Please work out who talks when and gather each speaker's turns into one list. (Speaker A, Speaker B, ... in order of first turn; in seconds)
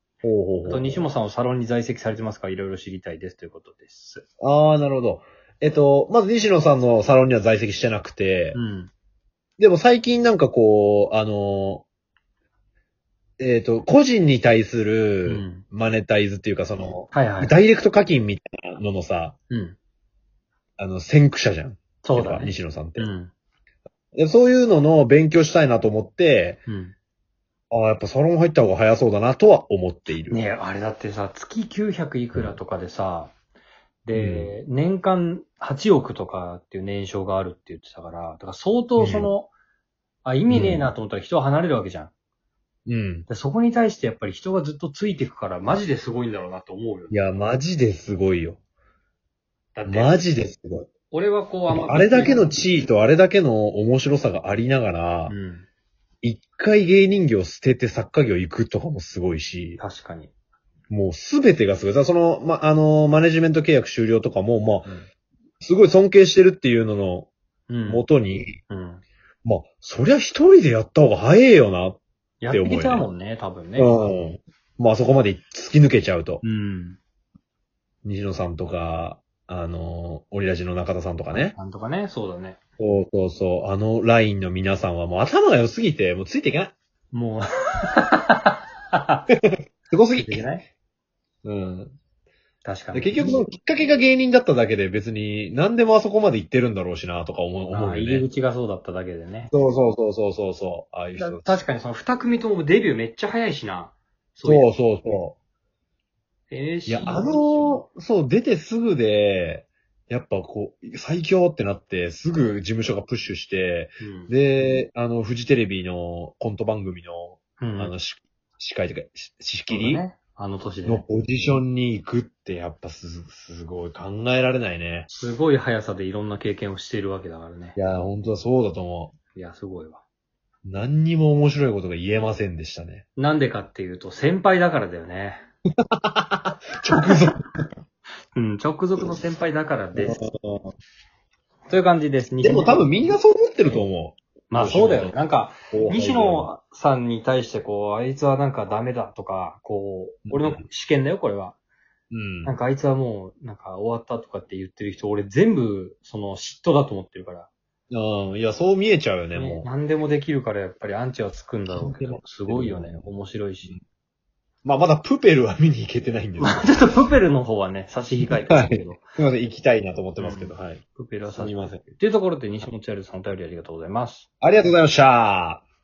Speaker A: 0.2-1.1, 4.4-8.6, 9.6-11.8, 13.4-19.4, 20.8-23.1, 24.1-26.6, 27.7-30.4, 34.1-34.5, 39.0-39.3, 40.5-40.9, 42.9-43.3, 47.1-48.6, 49.9-50.9, 51.7-55.3, 56.2-59.8, 60.9-64.9, 65.6-67.3, 67.9-68.5, 69.5-72.0, 72.5-73.0, 73.8-76.4, 78.0-81.5, 82.8-86.7, 89.3-90.5, 91.4-92.0, 92.9-98.2, 99.5-101.6, 104.5-105.3, 106.9-120.0, 120.9-125.1, 127.8-129.2, 130.6-133.0, 136.0-137.4, 140.0-140.7, 142.4-145.1, 145.7-146.5, 150.3-150.6, 152.1-152.5, 157.9-159.7, 161.7-163.0, 164.6-166.8, 168.4-170.8, 171.3-171.8, 174.4-175.6
Speaker B: 0.7-4.2, 8.5-8.9, 15.2-15.6, 17.1-17.5, 19.5-19.8, 22.0-23.3, 26.7-26.9, 30.3-33.3, 34.0-39.5, 40.2-42.1, 43.3-47.1, 49.8-50.2, 51.1-52.5, 55.3-55.6, 59.8-60.3, 67.7-68.0, 68.7-69.0, 72.4-73.9, 76.4-77.0, 81.3-82.6, 87.1-89.2, 90.2-90.6, 92.6-93.4, 97.7-99.5, 101.2-104.7, 106.5-107.8, 114.0-114.3, 117.6-117.9, 119.7-121.0, 125.1-127.8, 129.3-130.0, 133.2-135.4, 138.3-140.2, 141.7-142.9, 144.5-151.6, 152.4-157.5, 159.3-163.7, 166.4-169.0, 170.2-174.3